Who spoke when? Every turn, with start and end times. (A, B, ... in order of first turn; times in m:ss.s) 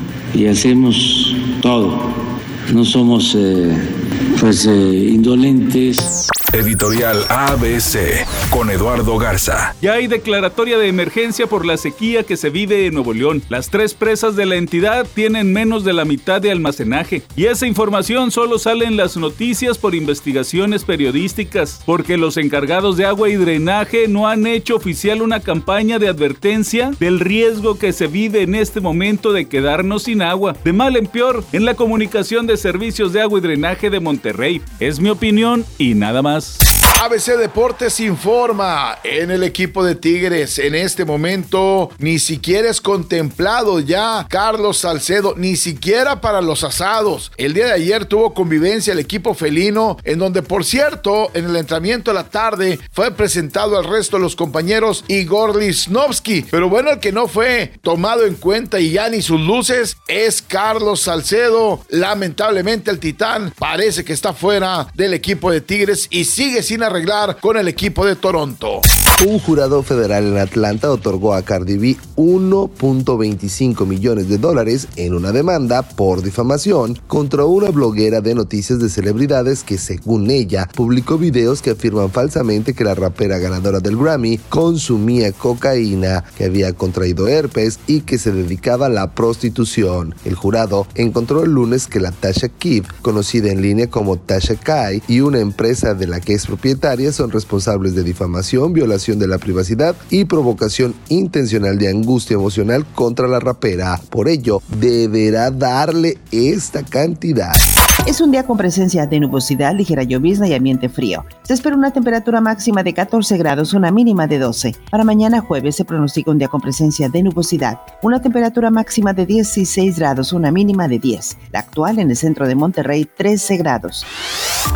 0:00.3-0:06.1 A
0:06.5-0:09.7 B
0:09.8-0:36.6 C
0:37.0-1:08.8 D
1:09.2-1:47.6 E
1:48.0-2:04.1 F